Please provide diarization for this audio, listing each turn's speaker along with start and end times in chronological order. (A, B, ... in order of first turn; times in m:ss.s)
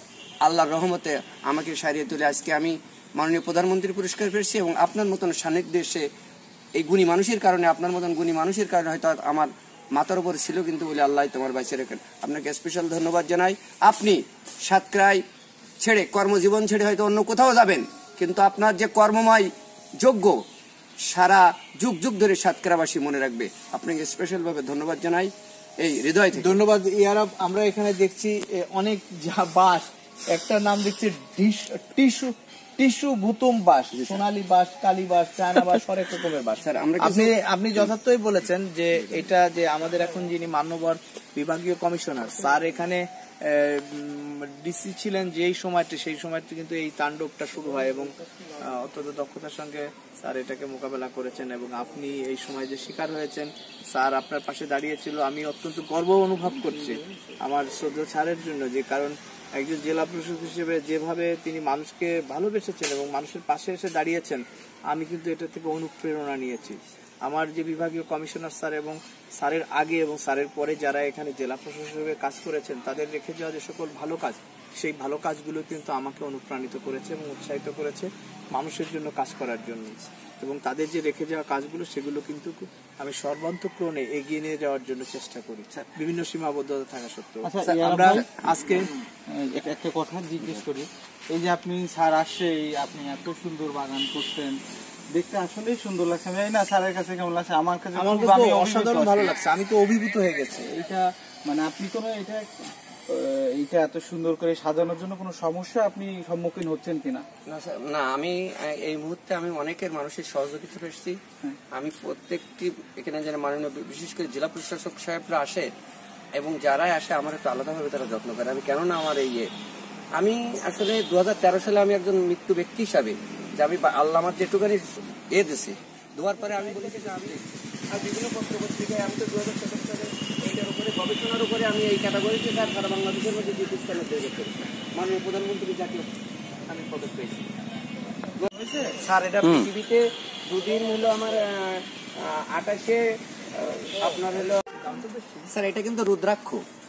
0:00.4-0:06.0 A
0:06.8-0:15.2 A
0:15.8-0:19.5 A
0:20.0-0:20.4 A
0:21.1-0:26.6 A
0:26.3-1:28.9 B
0:33.9-0:34.2 A
0:36.6-0:37.9 A
1:27.4-1:34.6 C
1:27.6-1:28.3 A
1:35.1-1:39.3 C
1:38.0-1:40.7 B
1:40.7-1:47.2 C
1:47.5-1:51.2 A
1:51.7-1:55.7 A
1:56.4-1:59.5 A
2:00.2-2:16.1 A
2:16.7-2:17.4 A
2:18.4-2:24.7 A
2:24.7-2:25.6 B
2:25.5-2:26.6 A